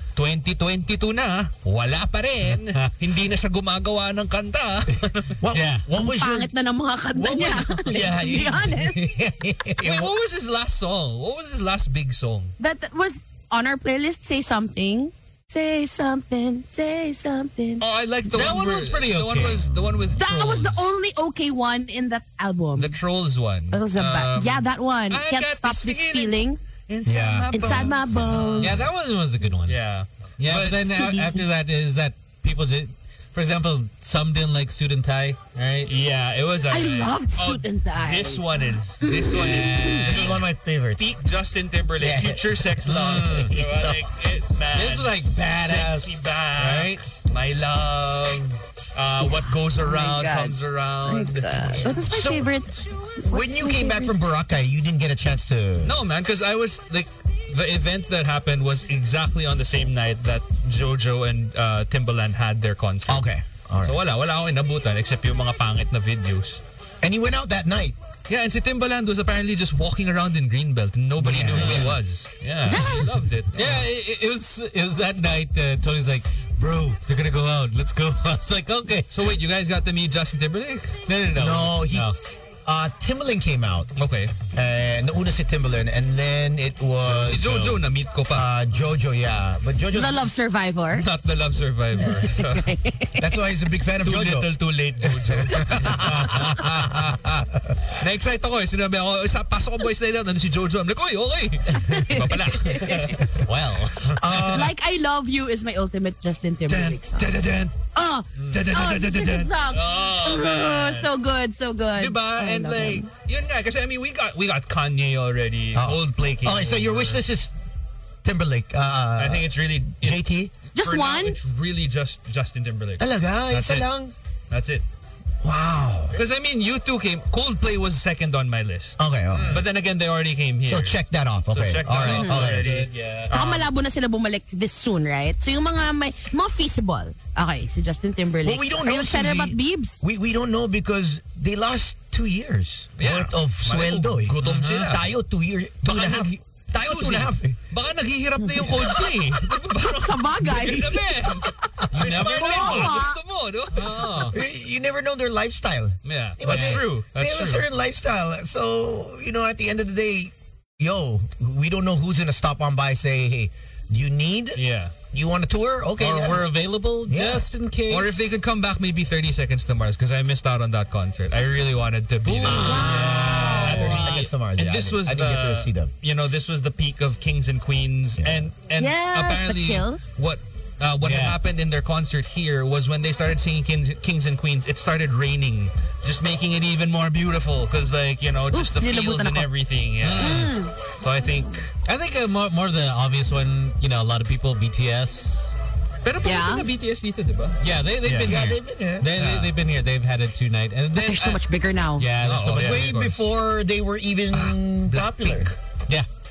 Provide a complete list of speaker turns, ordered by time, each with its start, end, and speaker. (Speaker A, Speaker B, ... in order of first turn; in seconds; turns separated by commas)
Speaker A: 0.1-5.4, Speaker B: 2.5-2.9, Speaker C: 5.4-6.5, Speaker B: 5.5-5.8, Speaker D: 5.9-9.1, Speaker C: 7.1-10.1, Speaker A: 9.8-12.5, Speaker D: 12.6-17.8, Speaker A: 17.8-20.9, Speaker B: 18.3-19.8, Speaker D: 20.1-22.9, Speaker A: 22.8-26.4, Speaker D: 23.7-26.6, Speaker A: 26.9-28.9, Speaker C: 27.0-28.8, Speaker D: 27.5-28.8, Speaker B: 28.6-29.8, Speaker A: 29.6-31.0, Speaker B: 30.4-35.9, Speaker D: 30.9-31.4, Speaker A: 35.8-40.4, Speaker D: 36.7-40.0, Speaker B: 39.2-40.4, Speaker C: 40.0-41.1, Speaker A: 41.0-52.0, Speaker C: 42.0-42.4, Speaker B: 42.8-43.5, Speaker C: 43.3-44.0, Speaker B: 44.7-47.0, Speaker D: 49.2-54.1, Speaker C: 51.9-52.5, Speaker C: 53.2-56.0, Speaker A: 55.8-63.2, Speaker C: 63.1-64.0, Speaker A: 63.8-66.6, Speaker C: 67.0-68.0, Speaker A: 68.3-73.8, Speaker C: 71.2-72.0, Speaker B: 71.5-72.0, Speaker D: 72.7-73.1, Speaker B: 73.5-79.1, Speaker A: 79.1-81.0, Speaker B: 81.1-82.2, Speaker C: 81.3-82.1, Speaker C: 82.6-83.9, Speaker A: 84.0-84.3, Speaker C: 84.5-87.6, Speaker B: 87.0-87.8, Speaker A: 87.2-88.5, Speaker C: 88.3-90.2, Speaker D: 89.9-91.1, Speaker A: 90.9-92.7, Speaker D: 92.0-93.3, Speaker C: 93.2-94.5, Speaker A: 94.0-103.3, Speaker C: 95.0-96.9, Speaker B: 95.8-96.8, Speaker C: 97.5-97.8, Speaker D: 101.7-103.2, Speaker B: 103.4-104.2, Speaker C: 104.2-104.7, Speaker A: 104.2-104.7, Speaker D: 104.4-107.3, Speaker A: 106.7-107.7, Speaker D: 107.9-113.1, Speaker B: 108.4-108.7, Speaker A: 108.5-111.1, Speaker A: 112.0-117.2, Speaker C: 115.7-117.5, Speaker C: 118.2-120.5, Speaker A: 119.2-120.2, Speaker D: 120.7-121.4, Speaker A: 120.7-123.9, Speaker C: 123.0-124.1, Speaker A: 124.5-124.8, Speaker C: 125.4-126.2, Speaker A: 126.1-131.0, Speaker C: 129.0-129.6, Speaker B: 129.3-129.7, Speaker C: 130.6-132.7, Speaker A: 131.5-133.7, Speaker B: 132.0-133.3, Speaker D: 132.1-132.5, Speaker D: 133.3-140.0, Speaker C: 138.4-147.6, Speaker A: 143.0-145.1, Speaker B: 144.4-145.0, Speaker A: 145.8-154.3, Speaker D: 148.6-148.9, Speaker C: 148.6-149.4, Speaker D: 149.7-151.2, Speaker C: 151.4-152.2, Speaker B: 151.9-153.0, Speaker D: 152.1-153.2, Speaker B: 153.7-154.4, Speaker C: 154.3-167.5, Speaker A: 156.0-157.7, Speaker B: 156.4-156.8, Speaker A: 164.5-164.9, Speaker B: 166.0-168.2, Speaker A: 167.9-191.7, Speaker B: 172.2-174.3, Speaker C: 172.4-175.9, Speaker D: 172.5-173.8, Speaker C: 178.2-178.4, Speaker D: 178.8-180.0, Speaker B: 181.0-181.4, Speaker D: 188.5-189.5, Speaker B: 190.0-190.5, Speaker D: 190.2-190.8, Speaker B: 191.8-195.5, Speaker A: 196.0-198.5, Speaker D: 196.2-196.7, Speaker B: 197.6-201.4, Speaker C: 198.2-199.1, Speaker A: 199.1-199.6, Speaker D: 200.9-202.1, Speaker B: 202.0-203.0, Speaker A: 202.2-203.2, Speaker C: 202.5-205.5, Speaker A: 204.3-205.6